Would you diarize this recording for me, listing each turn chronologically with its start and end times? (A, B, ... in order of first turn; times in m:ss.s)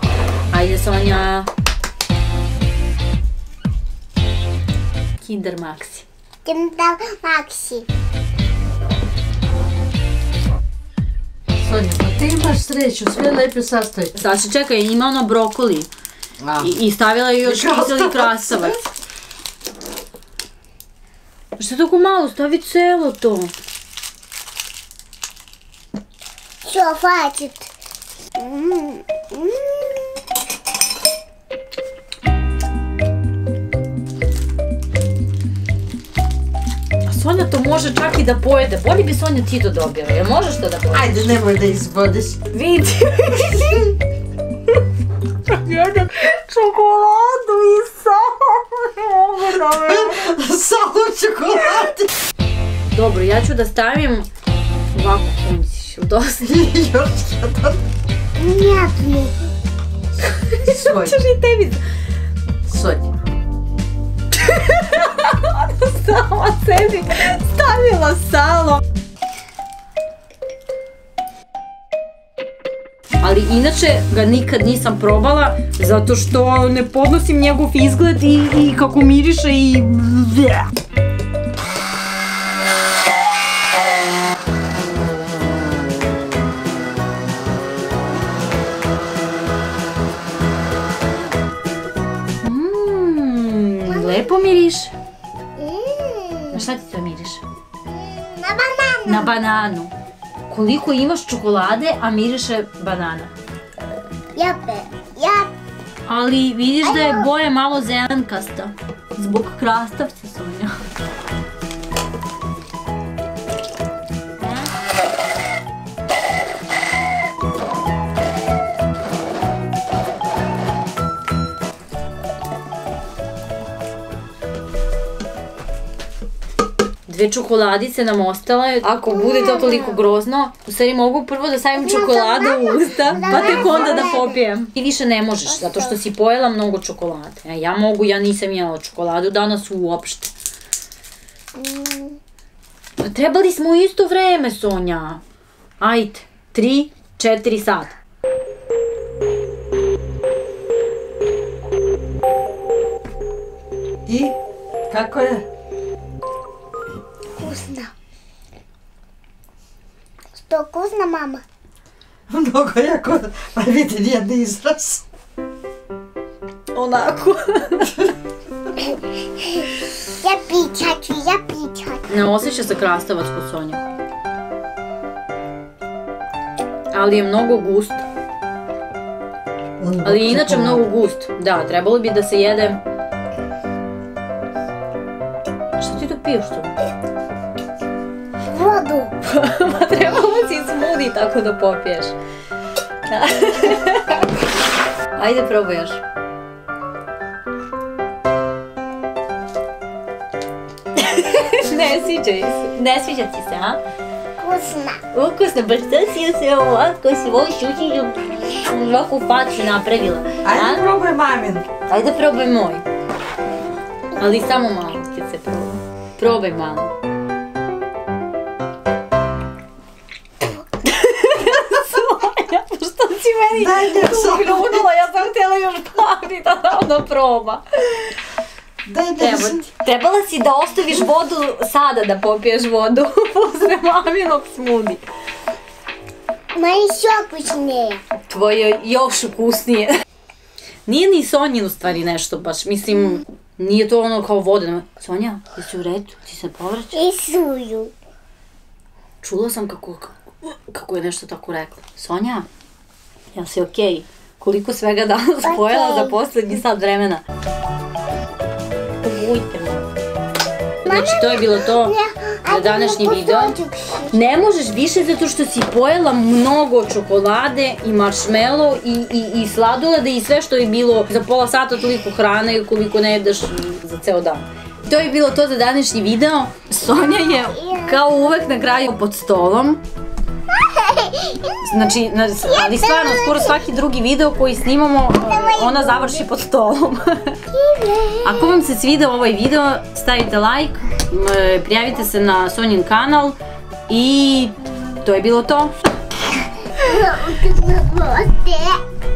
0:00.5-0:01.5 A
0:05.2-0:06.1 A
0:06.4-0:07.9 B
0:11.6-0:14.1 C
0:14.2-0:15.9 A
0:16.4-0:16.7 C
0:16.6-0:18.8 A
0:17.4-0:18.8 C
0:21.6-0:23.5 A
0:26.6-0:27.7 B
0:28.4-0:30.1 B
0:37.1-0:41.2 A
0:40.9-0:42.4 C
0:42.5-0:44.0 A
0:45.5-0:50.2 A
0:49.8-0:52.1 C
0:52.9-0:54.3 A
0:54.9-0:56.5 A
0:56.4-0:57.8 C
0:58.4-0:59.5 B
1:00.3-1:01.8 A
1:00.7-1:01.2 C
1:02.7-1:03.1 C
1:04.3-1:08.8 A
1:13.2-1:20.7 A
1:32.4-1:34.9 A
1:33.9-1:34.4 B
1:35.6-1:36.7 B
1:36.5-1:37.4 A
1:37.9-1:39.3 B
1:39.1-1:39.9 A
1:40.5-1:43.3 A
1:44.4-1:45.5 B
1:46.1-1:50.8 A
1:46.8-1:47.3 B
1:54.4-1:54.7 A
2:07.1-2:20.3 A
2:09.1-2:10.0 B
2:11.8-2:14.4 B
2:15.5-2:16.0 B
2:21.6-2:22.2 B
2:23.0-2:25.2 A
2:25.8-2:28.0 A
2:34.1-2:34.4 C
2:34.9-2:35.4 C
2:37.4-2:37.9 B
2:40.4-2:41.4 B
2:42.3-2:45.0 C
2:46.7-2:48.1 A
2:49.4-2:52.1 B
2:52.1-2:53.9 A
2:56.9-2:58.0 A
2:59.8-3:00.8 C
3:00.0-3:02.8 A
3:05.8-3:06.8 A
3:08.5-3:09.1 B
3:09.2-3:12.2 A
3:13.1-3:14.3 A
3:15.1-3:16.0 A
3:21.0-3:23.8 A
3:24.4-3:25.0 B
3:25.1-3:30.8 A
3:30.4-3:31.7 C
3:31.9-3:32.8 A
3:34.2-3:36.9 A
3:40.8-3:48.1 A
3:43.5-3:44.9 C
3:48.8-3:49.6 C
3:49.2-3:55.0 A
3:56.6-3:58.0 B
3:58.3-3:59.9 A
4:00.9-4:07.0 A
4:06.9-4:07.9 B
4:09.2-4:12.5 A
4:13.3-4:17.2 A
4:15.4-4:16.2 B
4:19.0-4:19.9 A
4:20.8-4:22.0 A
4:20.8-4:24.4 B
4:22.5-4:23.6 A
4:24.1-4:39.8 A
4:36.9-4:38.0 B
4:40.6-4:41.6 B
4:41.6-4:47.4 A
4:42.4-4:43.6 B
4:45.2-4:46.2 B
4:47.5-4:48.6 B
4:48.2-4:53.4 A
4:53.9-4:55.7 A
4:56.7-4:58.8 B